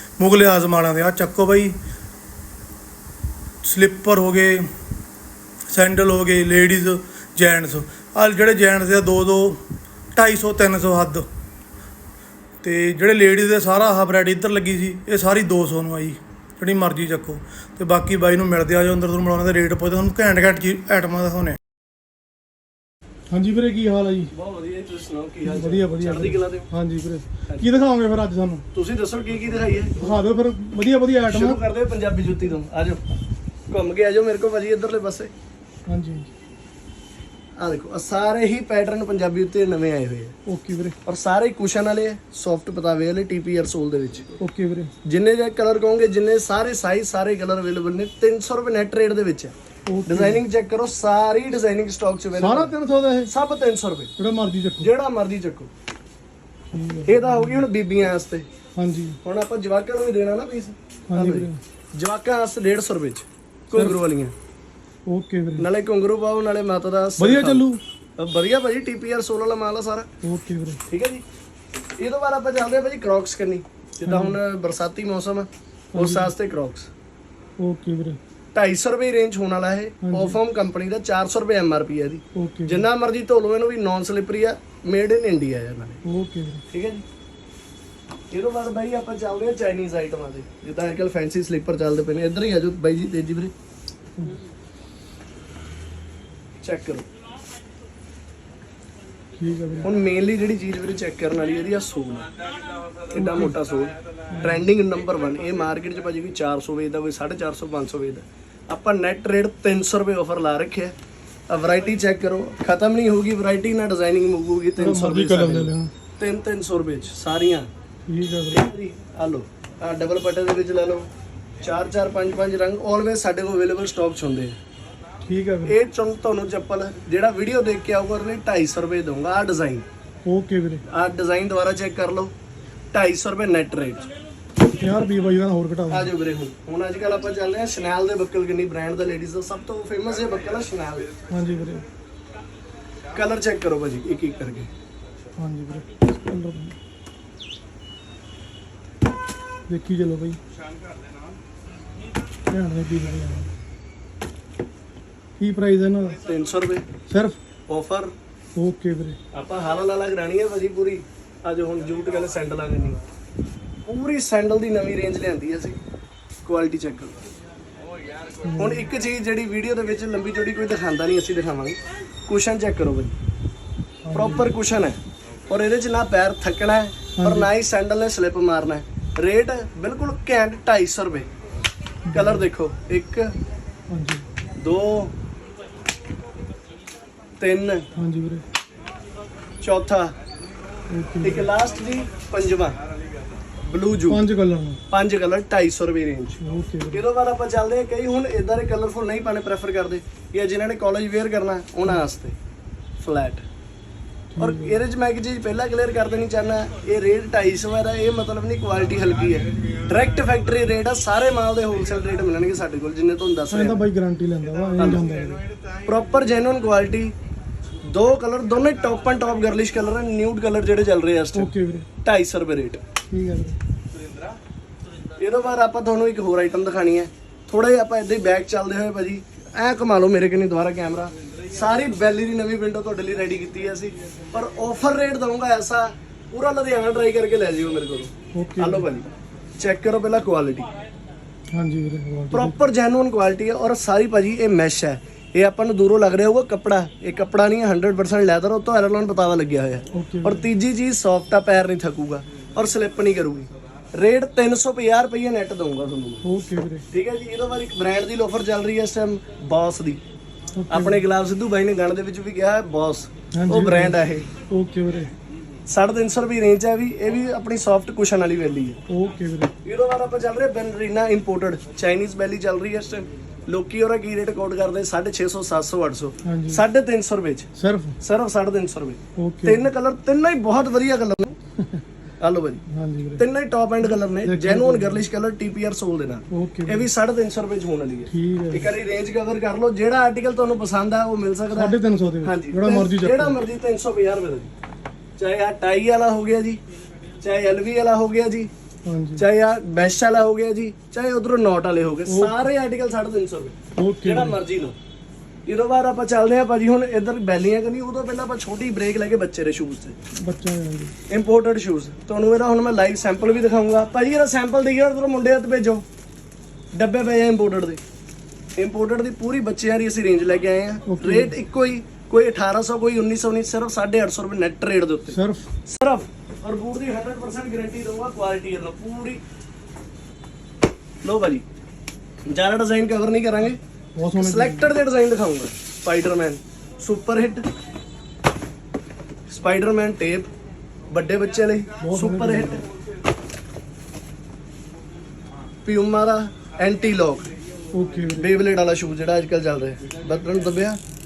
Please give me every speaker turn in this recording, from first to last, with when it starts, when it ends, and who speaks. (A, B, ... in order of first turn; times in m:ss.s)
0:00.2-0:01.7 A
0:03.6-0:04.6 A
0:05.7-0:09.6 A
0:10.1-0:11.2 A
0:12.6-0:21.6 A
0:23.3-0:24.3 A
0:24.3-0:26.7 B
0:25.4-0:28.6 A
0:28.7-0:30.1 B
0:30.0-0:31.6 A
0:31.3-0:33.0 B
0:33.7-0:35.3 B
0:35.9-0:36.3 A
0:37.6-0:40.3 B
0:40.4-0:41.0 A
0:41.0-0:44.3 B
0:44.4-0:44.9 A
0:45.0-0:49.5 B
0:49.9-0:50.4 A
0:50.1-0:52.7 B
0:52.4-0:53.3 A
0:53.3-0:54.1 B
0:54.2-0:54.9 A
0:54.8-0:55.7 B
0:56.7-0:57.6 A
0:57.0-0:58.4 B
0:58.8-0:59.2 A
0:59.2-1:04.3 B
1:01.1-1:01.6 A
1:05.1-1:05.7 A
1:05.6-1:07.6 B
1:07.2-1:07.8 A
1:08.2-1:10.1 B
1:10.2-1:10.8 A
1:10.9-1:11.2 B
1:12.0-1:16.9 B
1:14.0-1:14.4 A
1:15.9-1:16.3 A
1:17.6-1:18.2 A
1:18.5-1:26.0 B
1:20.0-1:20.4 A
1:22.3-1:22.8 A
1:26.0-1:26.6 A
1:26.7-1:27.0 B
1:28.3-1:33.5 B
1:36.6-1:37.0 B
1:39.4-1:39.9 A
1:39.8-1:42.3 B
1:43.1-1:50.9 B
1:43.1-1:43.5 A
1:44.3-1:44.7 A
1:51.5-1:57.7 B
1:54.8-1:55.9 A
1:58.1-1:58.6 A
1:58.5-2:01.1 B
2:01.6-2:04.6 B
2:05.2-2:05.7 A
2:05.6-2:09.8 B
2:10.2-2:10.8 A
2:10.9-2:12.3 B
2:12.9-2:14.1 B
2:14.8-2:16.1 A
2:15.9-2:21.1 B
2:21.3-2:21.8 A
2:23.1-2:24.7 B
2:25.4-2:26.8 A
2:29.7-2:30.4 A
2:32.5-2:33.5 A
2:35.4-2:36.2 A
2:36.2-2:36.8 B
2:37.1-2:37.4 A
2:37.7-2:38.1 B
2:38.6-2:39.2 A
2:39.3-2:43.0 B
2:43.8-2:45.8 B
2:46.4-2:47.1 B
2:48.4-2:48.9 A
2:48.6-2:53.2 B
2:54.1-2:54.5 A
2:54.1-2:55.0 B
2:55.5-3:01.3 B
2:57.2-2:57.5 A
3:02.1-3:02.4 A
3:02.1-3:03.3 B
3:03.9-3:04.2 A
3:04.6-3:05.1 B
3:07.4-3:07.9 B
3:08.0-3:08.4 A
3:09.6-3:10.1 B
3:10.9-3:11.5 A
3:11.2-3:12.8 B
3:13.6-3:14.2 B
3:14.1-3:14.8 A
3:14.9-3:16.4 B
3:16.4-3:17.0 A
3:16.9-3:22.3 B
3:23.0-3:23.4 B
3:24.3-3:24.8 A
3:24.4-3:33.8 B
3:33.5-3:35.4 A
3:35.8-3:37.1 B
3:37.8-3:42.8 B
3:41.3-3:41.9 A
3:43.1-3:43.6 A
3:45.2-4:00.7 B
3:58.3-3:58.8 A
4:01.5-4:02.6 A
4:02.3-4:16.2 B
4:09.9-4:10.4 A
4:16.2-4:16.8 A
4:16.9-4:20.0 B
4:20.6-4:21.0 A
4:20.7-4:24.3 B
4:23.3-4:24.0 A
4:24.5-4:25.1 A
4:25.7-4:28.8 B
4:28.9-4:29.5 A
4:29.6-4:37.5 B
4:36.2-4:36.6 A
4:37.6-4:38.0 A
4:38.0-4:41.3 B
4:39.2-4:39.6 A
4:42.2-4:42.6 B
4:42.7-4:43.2 A
4:43.2-4:54.5 B
4:44.2-4:45.0 A
4:46.3-4:46.8 A
4:48.1-4:48.7 A
4:51.5-4:53.4 A
4:55.2-4:56.6 B
4:57.2-4:58.5 B
4:58.9-4:59.2 A
4:59.2-5:04.8 B
5:02.1-5:02.4 A
5:03.8-5:04.4 A
5:05.5-5:10.0 B
5:10.2-5:10.9 A
5:11.1-5:15.8 B
5:16.7-5:17.8 B
5:18.6-5:25.2 B
5:20.9-5:21.3 A
5:25.1-5:25.4 A
5:25.7-5:29.2 B
5:31.0-5:31.4 B
5:32.3-5:33.6 B
5:34.0-5:34.7 A
5:34.2-5:37.4 B
5:39.3-5:40.3 B
5:40.9-5:42.6 B
5:41.8-5:42.6 A
5:45.6-5:47.3 B
5:47.7-5:48.2 A
5:48.1-5:50.8 B